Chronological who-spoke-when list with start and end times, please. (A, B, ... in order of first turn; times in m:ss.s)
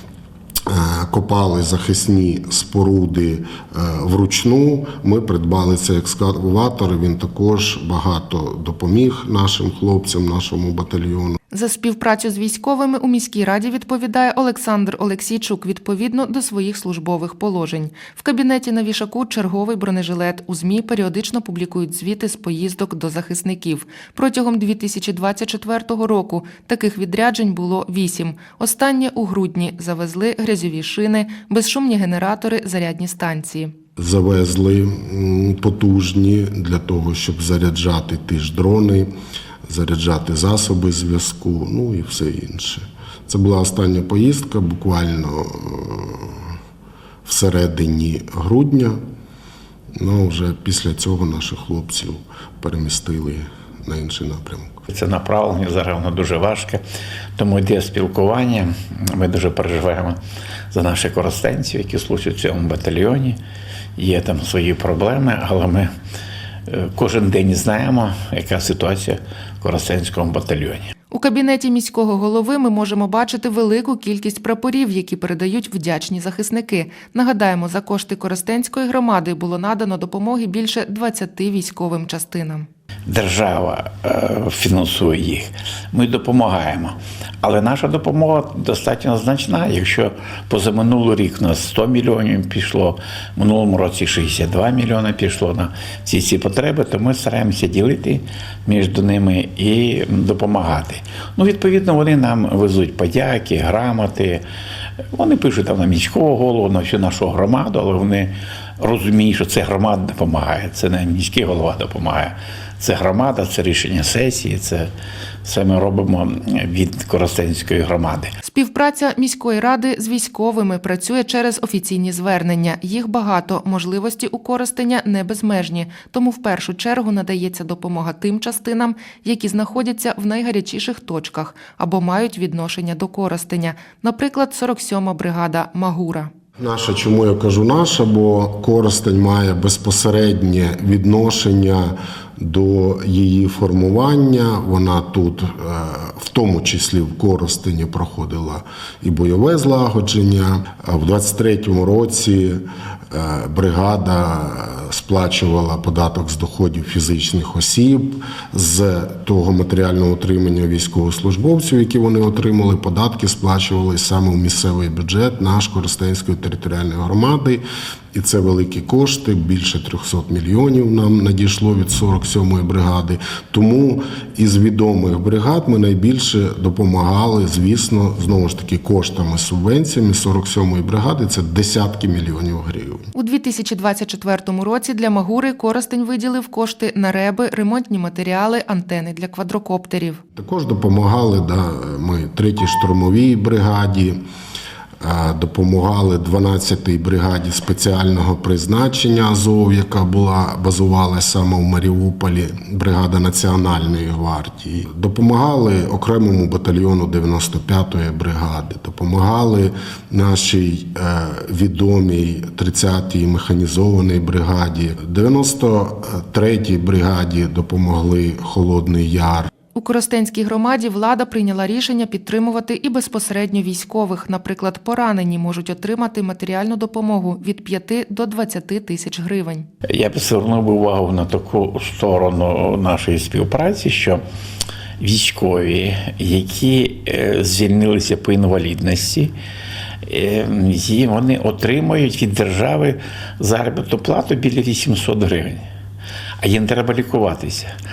0:00.7-0:11.4 A
0:11.5-0:33.7 B
0:34.0-0:39.1 A
0:39.7-0:46.5 A
0:47.2-0:49.0 A
0:50.0-0:54.8 A
0:54.9-0:56.8 C
0:57.4-1:00.2 C
1:00.7-1:03.4 C
1:04.0-1:05.9 C
1:06.7-1:10.9 C
1:11.1-1:22.7 B
1:23.1-1:44.4 C
1:45.1-1:54.9 C
1:55.4-1:58.3 C
1:58.4-2:16.3 B
2:16.6-2:47.6 A
2:48.1-3:03.1 A
3:03.1-3:10.2 B
3:10.4-3:14.2 A
3:15.0-3:39.5 A
3:39.7-3:49.7 B
3:49.9-3:54.2 C
3:55.0-3:59.3 C
4:00.0-4:05.6 C
4:06.4-4:07.7 C